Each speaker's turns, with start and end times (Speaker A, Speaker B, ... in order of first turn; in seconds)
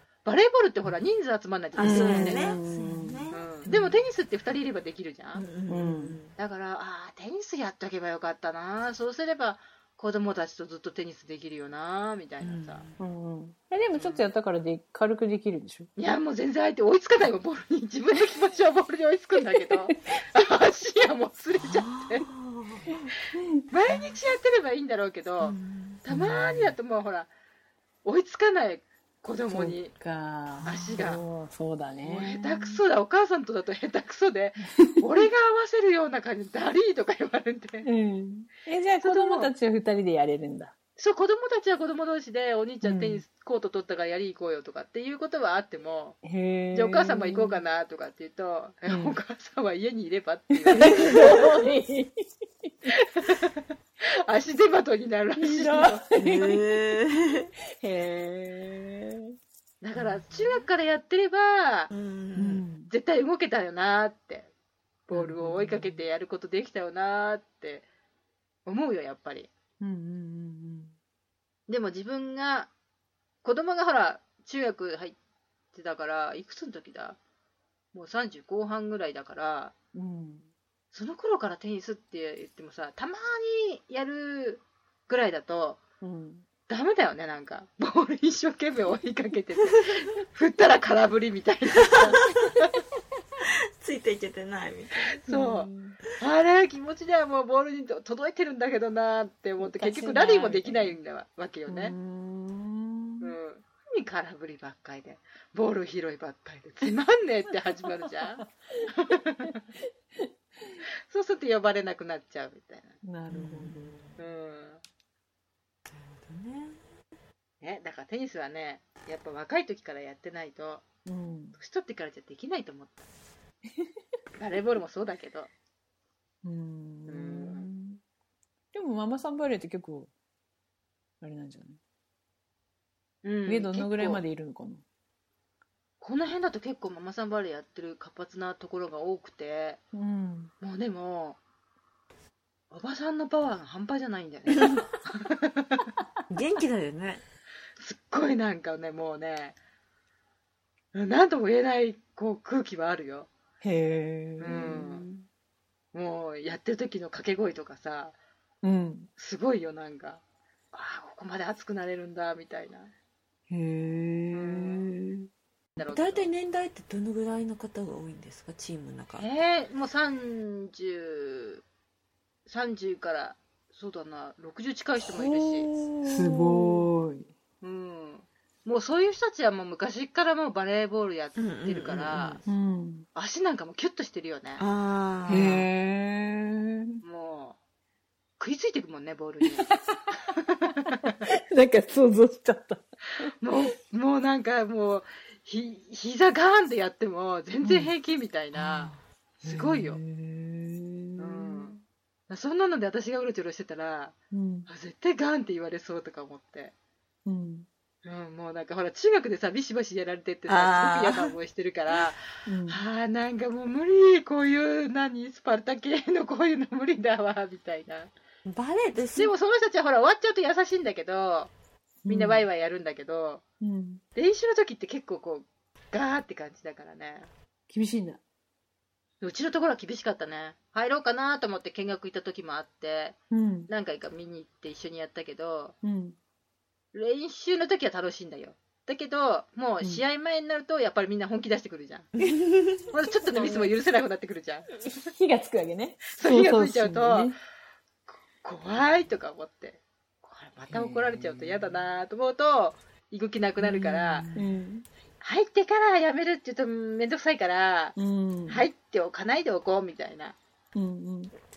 Speaker A: 0.2-2.5, 3.3-5.5, 6.3-12.8, 13.9-14.3, 16.0-22.3, 23.7-27.3, 28.0-29.9, 30.6-31.2, 32.0-37.9, 39.0-39.5, 41.0-46.2, 46.7-51.5, 52.9-56.0, 59.8-61.9, 62.9-64.5, 65.1-67.9, 68.7-69.5, 71.7-72.7, 73.4-75.2, 75.7-77.2, 77.9-79.7, 80.9-85.8, 86.7-92.8, 95.2-101.9, 103.2-109.6, 111.1-112.9, 114.2-114.8, 117.6-120.8, 121.6-123.0, 124.4-125.5, 127.1-127.7, 133.2-134.2, 136.0-139.8, 140.6-141.4, 142.7-145.9, 147.8-149.6, 150.9-153.3, 154.4-155.1, 155.9-158.1, 159.2-160.2, 160.7-162.9, 164.3-164.8, 165.8-166.3, 169.2-171.6, 172.4-175.7, 177.6-182.4, 183.1-184.6, 187.0-187.6, 188.4-189.7, 190.3-191.2, 193.4-200.0, 201.2-201.8, 202.3-204.1, 204.7-206.7, 208.0-218.1, 219.2-221.5, 222.1-223.4, 224.2-227.3, 229.2-233.2, 233.7-235.7, 236.9-242.1, 242.9-244.7, 246.1-247.3, 248.4-254.3, 255.2-257.9, 258.5-260.4
Speaker B: 1.8-4.0, 5.3-6.3, 12.4-13.0, 21.6-23.1, 25.4-26.1, 30.6-31.0, 50.9-51.2, 56.1-57.5, 61.9-62.6, 91.9-92.3, 93.8-95.2, 113.3-114.2, 115.9-116.8, 146.3-147.2, 165.8-169.3, 175.2-176.9, 181.3-182.4, 184.6-185.7, 210.5-211.3, 218.4-219.3, 242.2-242.9, 253.9-254.5
Speaker C: 1.8-3.3, 5.7-6.2, 13.0-15.9, 19.4-19.9, 22.9-23.6, 26.1-26.6, 29.5-32.5, 34.8-35.1, 37.8-40.7, 42.8-43.2, 46.2-47.6, 48.9-49.2, 50.5-52.9, 55.4-57.0, 57.8-59.3, 62.4-62.9, 65.1-66.0, 69.8-70.9, 79.9-80.5, 86.0-86.4, 95.3-96.0, 99.6-101.0, 101.7-103.3, 107.8-109.6, 110.1-110.8, 113.0-114.0, 121.0-121.5, 123.7-124.0, 126.4-128.0, 128.7-130.1, 131.2-131.8, 133.4-134.8, 139.9-140.5, 153.6-155.3, 158.6-159.1, 163.5-165.3, 176.0-177.3, 182.5-183.0, 185.3-187.0, 189.4-190.2, 191.1-193.3, 197.6-197.9, 198.6-198.9, 199.4-201.7, 204.3-204.7, 207.2-207.7, 212.4-212.8, 222.0-222.4, 223.6-224.0, 227.7-228.2, 233.3-233.7, 235.8-236.2, 243.3-243.7, 244.8-247.3, 250.7-251.2, 253.7-254.8, 257.9-258.6, 260.7-261.3